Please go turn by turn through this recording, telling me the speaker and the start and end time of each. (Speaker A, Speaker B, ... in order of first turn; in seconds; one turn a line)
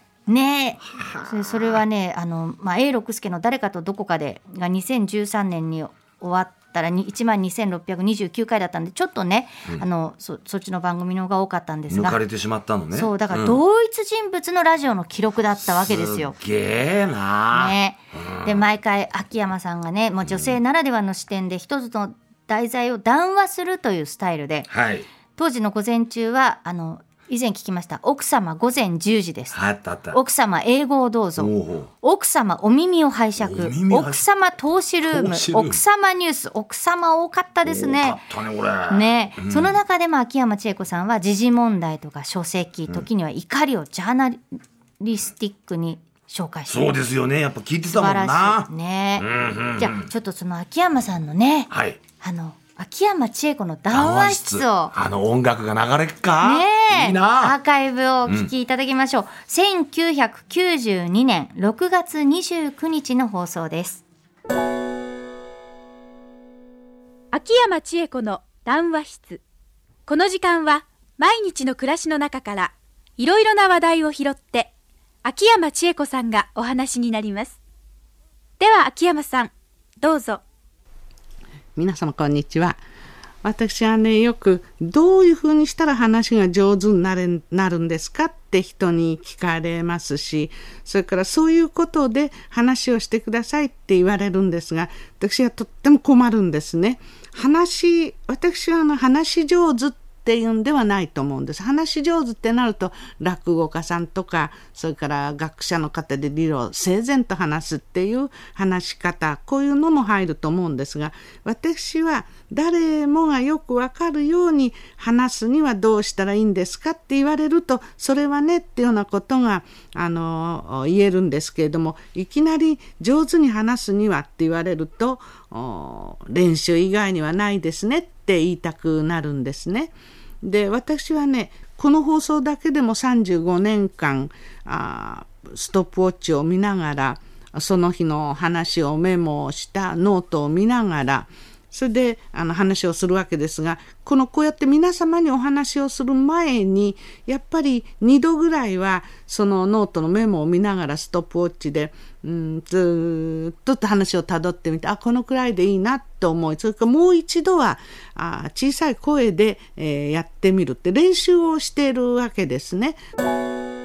Speaker A: 0.3-12.2
Speaker B: 0.9-1.8
Speaker B: 11.9-13.6
Speaker A: 12.9-16.4
Speaker B: 15.7-18.6
Speaker A: 17.5-24.7
Speaker B: 20.3-20.6
Speaker B: 24.7-25.1
Speaker A: 25.4-29.6
Speaker B: 29.5-30.2
Speaker A: 30.1-38.2
Speaker B: 31.4-31.9
Speaker B: 33.4-34.2
Speaker B: 35.0-35.8
Speaker B: 37.7-39.8
Speaker A: 38.9-44.4
Speaker A: 45.0-47.0
Speaker B: 46.7-50.1
Speaker A: 47.9-54.9
Speaker B: 51.7-52.0
Speaker B: 53.9-57.6
Speaker A: 56.4-64.0
Speaker B: 58.3-58.5
Speaker C: 67.3-69.4
Speaker C: 70.1-74.7
Speaker C: 75.2-77.6
Speaker C: 78.6-80.4
Speaker D: 81.8-82.8
Speaker D: 83.4-163.0